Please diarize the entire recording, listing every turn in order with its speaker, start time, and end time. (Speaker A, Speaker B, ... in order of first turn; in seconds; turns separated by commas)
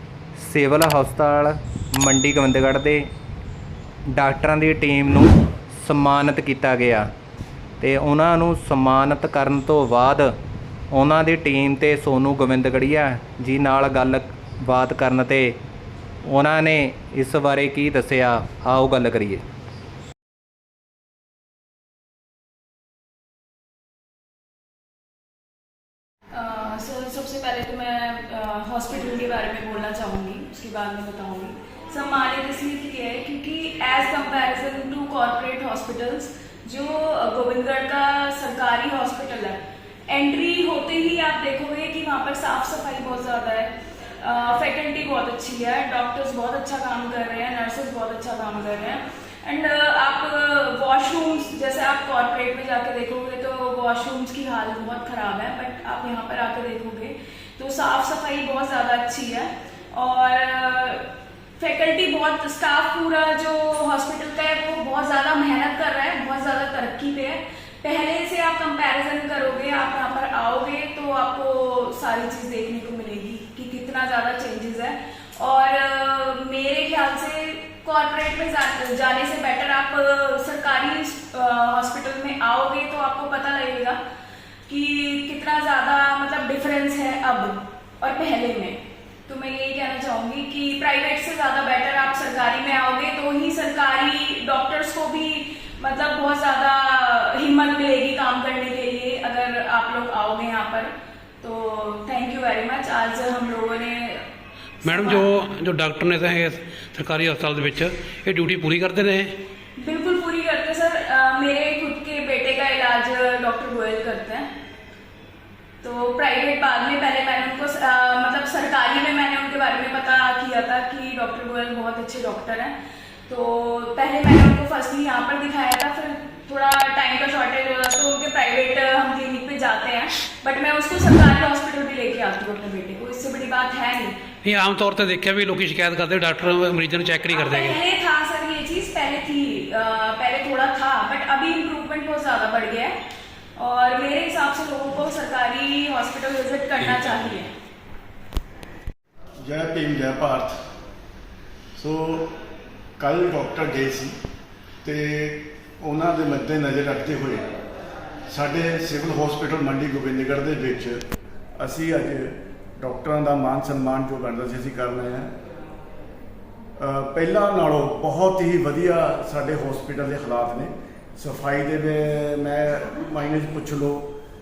Speaker A: 0.3-3.1, Speaker A: 4.1-7.1, Speaker A: 7.8-10.3, Speaker A: 10.9-15.6, Speaker A: 16.2-19.4, Speaker B: 26.3-61.0, Speaker B: 61.6-84.0, Speaker B: 84.7-104.2, Speaker C: 104.8-109.3, Speaker B: 104.8-105.3, Speaker B: 109.8-114.4, Speaker B: 115.8-122.7, Speaker B: 123.3-134.1, Speaker C: 134.4-137.8, Speaker B: 137.3-142.9, Speaker B: 143.6-147.5, Speaker D: 149.4-150.6, Speaker D: 151.8-152.3, Speaker D: 153.0-154.2, Speaker D: 154.8-157.4, Speaker D: 158.3-161.0, Speaker D: 161.6-165.3, Speaker D: 166.8-174.1